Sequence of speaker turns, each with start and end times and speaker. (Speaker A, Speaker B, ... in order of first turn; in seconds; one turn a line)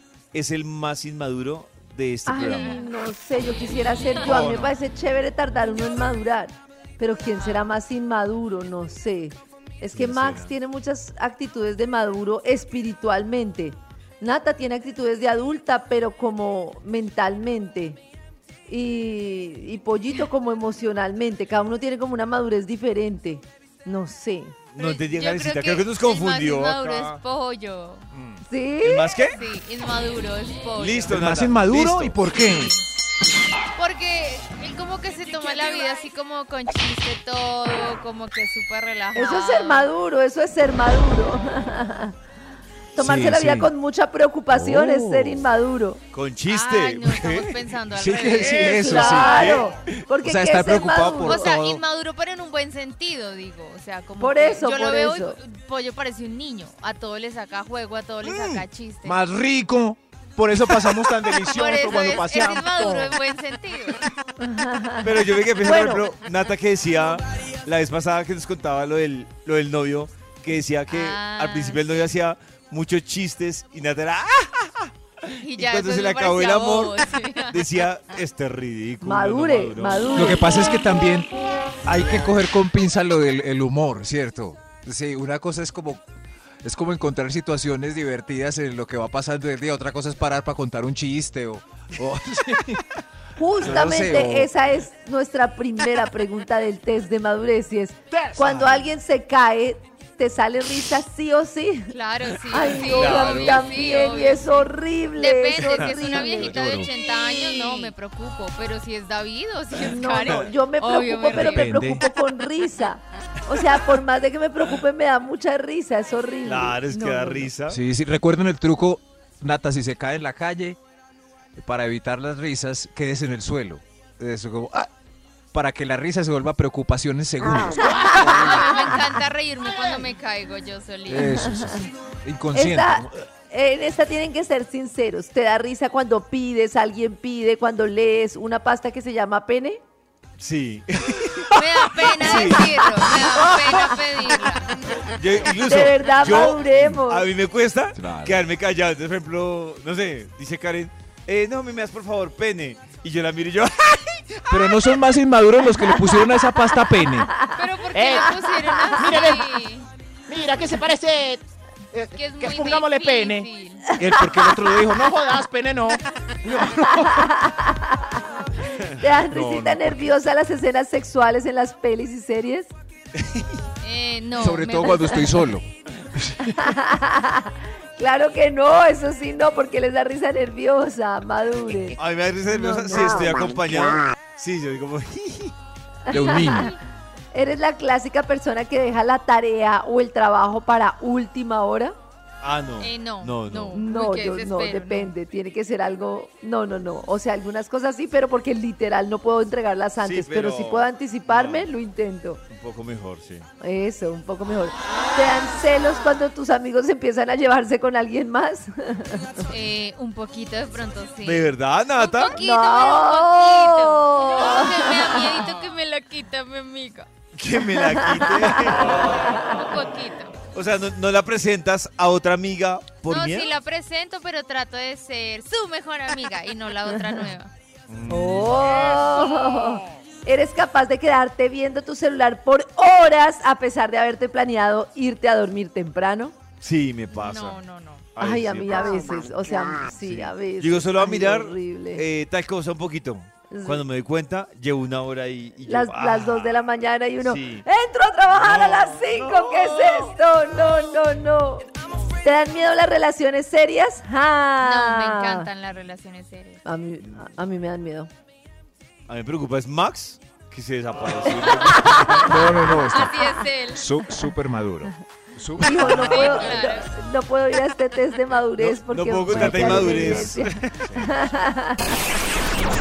Speaker A: 0.3-2.9
Speaker B: 2.2-18.0
Speaker C: 2.4-2.8
Speaker A: 4.2-4.7
Speaker A: 9.9-10.5
Speaker B: 18.7-24.5
Speaker A: 24.7-26.9
Speaker C: 24.8-28.0
Speaker B: 28.5-29.1
Speaker A: 28.8-29.4
Speaker C: 29.2-31.2
Speaker A: 30.8-32.2
Speaker D: 31.1-32.7
Speaker C: 33.8-39.9
Speaker B: 39.1-42.1
Speaker B: 43.0-46.0
Speaker D: 43.0-43.7
Speaker D: 44.5-45.5
Speaker A: 46.1-47.5
Speaker C: 46.5-49.0
Speaker D: 47.9-49.6
Speaker A: 48.4-49.7
Speaker B: 48.6-51.5
Speaker D: 50.2-51.8
Speaker C: 51.2-59.2
Speaker B: 54.2-55.4
Speaker A: 58.2-58.6
Speaker D: 59.0-63.1
Speaker C: 61.4-64.1
Speaker B: 64.4-66.0
Speaker A: 65.0-80.1
Speaker C: 70.9-71.8
Speaker C: 75.4-77.8
Speaker B: 79.0-80.5
Speaker D: 80.1-81.3
Speaker D: 81.8-86.0
Speaker D: 86.6-92.9
Speaker B: 93.3-101.9
Speaker D: 93.6-94.5
Speaker D: 98.4-98.7
Speaker C: 101.9-111.8
Speaker B: 102.5-106.5
Speaker A: 102.9-103.6
Speaker A: 105.5-106.9
Speaker B: 107.4-107.9
Speaker B: 109.8-117.5
Speaker D: 111.3-112.0
Speaker A: 116.4-117.8
Speaker D: 117.7-120.8
Speaker D: 121.5-124.9
Speaker D: 125.5-128.4
Speaker E: 127.8-128.7
Speaker C: 128.1-131.5
Speaker D: 131.1-133.1
Speaker B: 131.4-131.8
Speaker B: 132.5-139.8
Speaker A: 140.4-144.0
Speaker C: 141.5-145.0
Speaker A: 145.0-154.9
Speaker B: 145.6-147.3
Speaker D: 147.9-148.4
Speaker D: 154.5-157.3
Speaker C: 157.5-159.9
Speaker E: 157.9-158.3
Speaker E: 158.9-159.4
Speaker E: 160.3-161.4
Speaker E: 161.9-163.5
Speaker C: 162.1-163.9
Speaker D: 164.0-165.0
Speaker E: 164.2-166.9
Speaker B: 166.8-167.9
Speaker B: 169.0-172.7
Speaker D: 169.3-169.8
Speaker A: 173.2-173.6
Speaker C: 173.8-175.5
Speaker D: 174.4-176.5
Speaker B: 174.8-175.2
Speaker B: 176.5-183.4
Speaker A: 182.0-185.5
Speaker B: 186.1-186.7
Speaker D: 186.1-186.7
Speaker C: 186.4-186.8
Speaker B: 187.3-191.9
Speaker A: 192.4-193.8
Speaker C: 192.8-195.1
Speaker B: 193.7-202.4
Speaker A: 200.0-201.7
Speaker A: 202.5-203.5
Speaker B: 203.6-209.5
Speaker C: 209.5-217.1
Speaker A: 211.2-212.4
Speaker B: 212.3-215.3
Speaker A: 217.3-219.4
Speaker B: 217.8-219.3
Speaker C: 219.3-220.4
Speaker A: 220.5-223.5
Speaker C: 223.1-227.5
Speaker A: 227.9-228.9
Speaker B: 228.1-236.3
Speaker C: 228.9-229.8
Speaker A: 236.6-237.6
Speaker C: 237.1-238.1
Speaker A: 238.2-238.9
Speaker B: 238.2-242.0
Speaker A: 239.9-246.6
Speaker B: 243.5-243.8
Speaker B: 245.6-251.7
Speaker A: 247.2-247.7
Speaker A: 248.3-250.2
Speaker B: 252.2-255.5
Speaker C: 254.6-256.6
Speaker B: 256.6-258.1
Speaker A: 259.1-262.5
Speaker B: 261.7-262.3
Speaker D: 262.1-266.4
Speaker C: 262.7-263.8
Speaker B: 265.6-271.9
Speaker C: 265.7-266.9
Speaker A: 268.6-271.1
Speaker D: 269.3-270.4